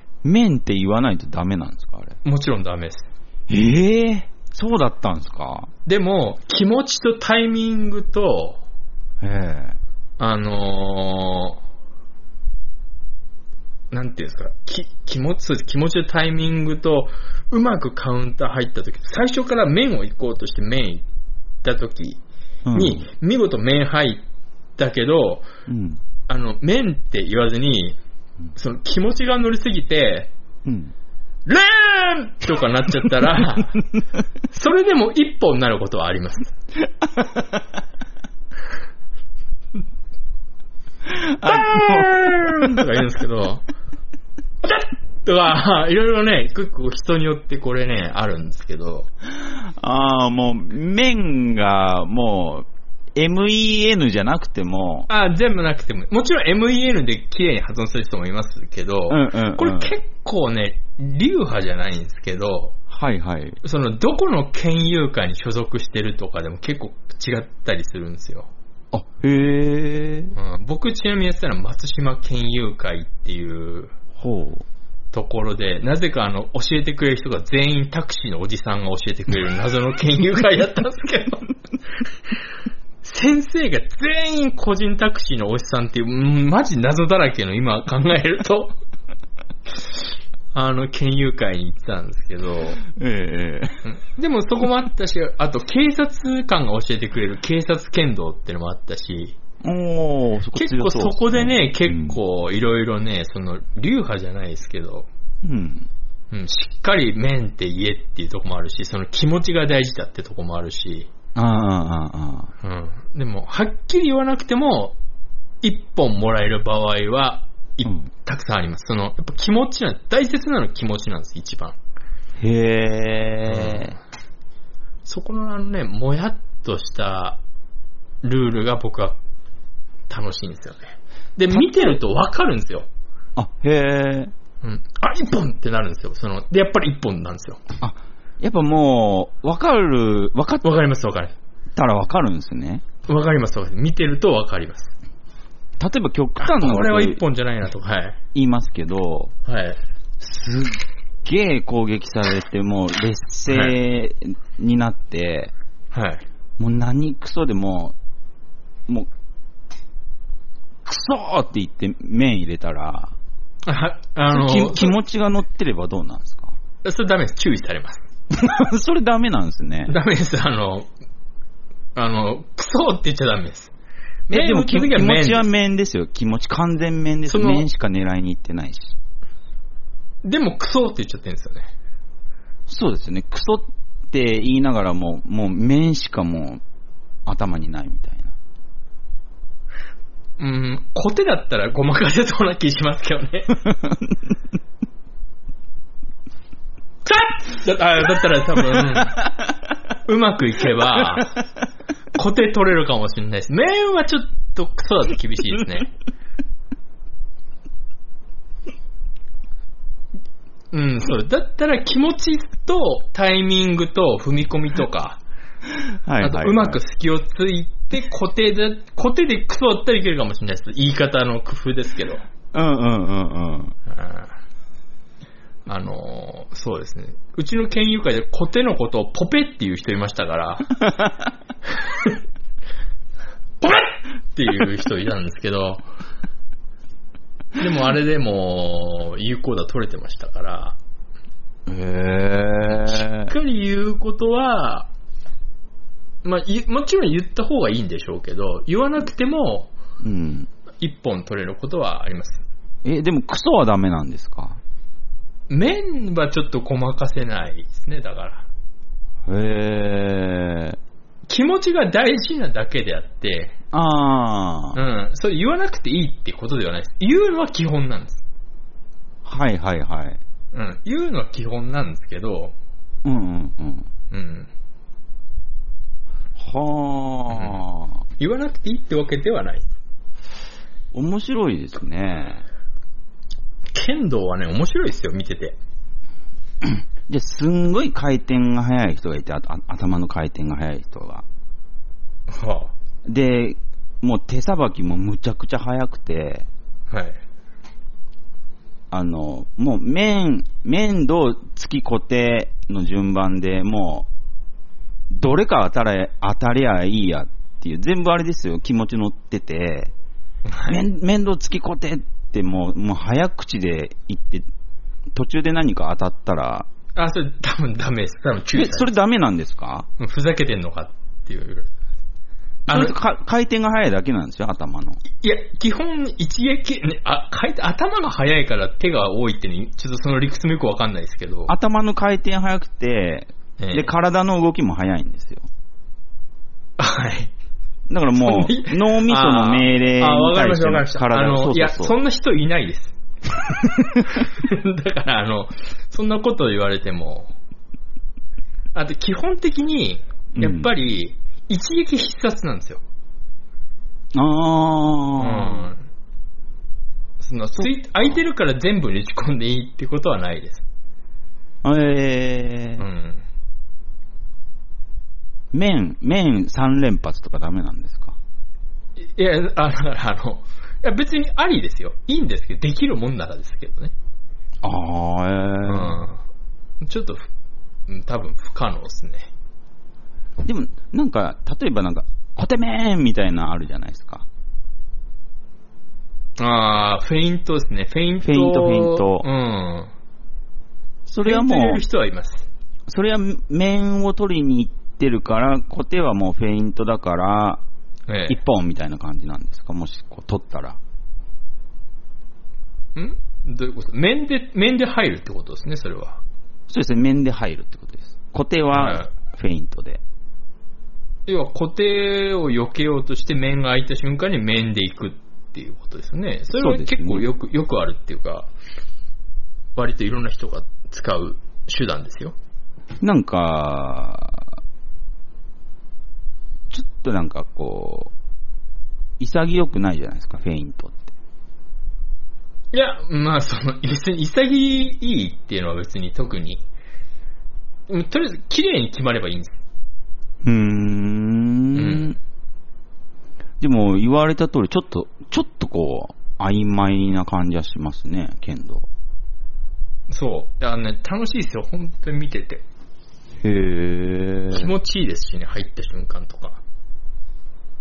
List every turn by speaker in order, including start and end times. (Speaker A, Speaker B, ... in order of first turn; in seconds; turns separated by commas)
Speaker A: 0.2-2.2, Speaker B: 2.2-3.1, Speaker A: 3.5-5.7, Speaker B: 5.8-8.6, Speaker A: 9.2-9.8, Speaker B: 10.2-11.6, Speaker B: 13.9-21.0, Speaker B: 21.6-22.2, Speaker A: 22.6-23.1, Speaker B: 22.7-24.2, Speaker B: 24.8-25.4, Speaker A: 25.7-26.0, Speaker B: 26.3-28.0, Speaker B: 28.5-30.3, Speaker A: 30.6-30.9, Speaker B: 31.4-33.8, Speaker B: 34.5-36.5, Speaker A: 37.1-37.5, Speaker A: 41.0-42.8, Speaker B: 41.4-43.6, Speaker B: 44.6-49.1, Speaker A: 49.2-55.1, Speaker B: 55.1-62.8, Speaker A: 59.1-59.9, Speaker A: 62.9-63.6, Speaker B: 63.6-68.5, Speaker A: 68.9-70.3, Speaker B: 70.3-73.9, Speaker A: 74.2-74.6, Speaker B: 75.1-81.5, Speaker B: 83.0-88.7, Speaker B: 90.5-92.8, Speaker A: 92.8-93.8, Speaker B: 93.8-99.3, Speaker A: 99.6-102.2, Speaker B: 100.5-105.1, Speaker A: 105.4-105.9, Speaker B: 106.3-111.1, Speaker A: 111.3-112.5, Speaker B: 112.6-115.0, Speaker B: 115.6-121.8, Speaker A: 122.4-123.9, Speaker B: 123.5-124.0, Speaker B: 125.0-127.4, Speaker B: 128.2-129.2, Speaker B: 130.1-132.9, Speaker A: 131.5-132.0, Speaker A: 133.3-134.3, Speaker B: 134.6-137.6, Speaker A: 137.8-140.7, Speaker B: 140.6-141.3, Speaker A: 141.7-142.8, Speaker B: 143.1-144.9, Speaker A: 145.8-147.2, Speaker B: 146.4-148.2, Speaker A: 148.3-149.3, Speaker B: 149.4-149.8, Speaker A: 150.2-155.5, Speaker B: 153.5-153.8, Speaker B: 155.9-156.2, Speaker A: 156.6-157.9, Speaker A: 160.8-163.1, Speaker B: 163.7-164.9, Speaker A: 164.3-166.6, Speaker B: 166.8-168.1, Speaker A: 168.3-169.9, Speaker B: 169.9-170.9, Speaker B: 171.9-173.7, Speaker B: 174.3-175.4, Speaker A: 174.3-179.0, Speaker B: 177.3-177.7, Speaker B: 180.2-181.7, Speaker A: 182.7-186.6, Speaker A: 187.2-188.3, Speaker B: 190.4-193.6, Speaker A: 193.7-194.2, Speaker B: 197.0-199.3, Speaker B: 200.0-201.3, Speaker B: 202.1-205.9, Speaker B: 210.7-215.2, Speaker A: 215.7-216.8, Speaker B: 216.2-222.2, Speaker A: 222.5-223.7, Speaker B: 223.9-224.3, Speaker B: 225.7-230.7, Speaker B: 231.8-232.2, Speaker B: 233.6-235.8, Speaker B: 237.6-240.8, Speaker A: 241.7-243.3, Speaker B: 242.7-244.9, Speaker B: 246.2-249.7, Speaker A: 250.0-250.5, Speaker B: 250.8-252.4, Speaker A: 252.8-254.6, Speaker B: 255.5-258.4, Speaker A: 259.2-260.8, Speaker B: 261.3-263.5, Speaker A: 263.7-264.8, Speaker B: 264.7-268.2, Speaker A: 269.2-270.2, Speaker B: 270.5-272.5, Speaker A: 273.0-273.9, Speaker B: 274.1-274.5, Speaker A: 276.4-278.0, Speaker B: 277.3-277.6, Speaker B: 278.2-279.7, Speaker A: 280.9-282.4, Speaker B: 283.7-285.6, Speaker A: 286.6-291.2, Speaker B: 292.3-292.7, Speaker A: 293.0-296.5, Speaker B: 296.9-297.2, Speaker A: 298.9-304.1, Speaker A: 305.1-309.9, Speaker B: 310.4-310.8, Speaker A: 310.7-314.4, Speaker A: 315.1-316.7, Speaker B: 316.9-318.9, Speaker A: 318.5-319.9, Speaker B: 320.0-321.8, Speaker B: 322.7-322.9, Speaker A: 322.7-325.0, Speaker B: 325.1-331.5, Speaker A: 331.5-335.5, Speaker B: 333.6-333.9, Speaker B: 336.8-337.3, Speaker A: 337.9-342.0, Speaker B: 338.2-343.0, Speaker B: 344.1-347.3, Speaker B: 348.7-352.8, Speaker A: 350.4-350.7, Speaker A: 354.1-355.7, Speaker B: 355.2-355.8, Speaker B: 357.2-360.6, Speaker A: 361.6-362.8, Speaker B: 362.8-363.2, Speaker A: 365.5-368.2, Speaker B: 369.0-373.9, Speaker A: 374.6-376.1, Speaker B: 375.6-376.2, Speaker B: 376.8-377.3, Speaker B: 377.9-379.3, Speaker A: 380.4-384.2, Speaker B: 386.4-389.9, Speaker A: 388.2-389.3, Speaker A: 391.1-391.8, Speaker B: 391.2-392.5, Speaker A: 392.9-397.6, Speaker B: 398.1-398.4, Speaker A: 398.3-400.8, Speaker B: 402.9-406.2, Speaker A: 406.7-410.0, Speaker B: 408.7-409.1, Speaker B: 411.2-418.5, Speaker A: 416.5-417.3, Speaker B: 419.8-422.3, Speaker A: 423.0-424.6, Speaker A: 426.7-428.1, Speaker A: 429.2-431.1, Speaker B: 432.7-436.6, Speaker B: 437.9-439.6, Speaker A: 440.4-442.2, Speaker B: 441.7-442.1, Speaker A: 443.6-448.9, Speaker B: 450.1-452.6, Speaker A: 453.4-454.7, Speaker B: 454.5-456.6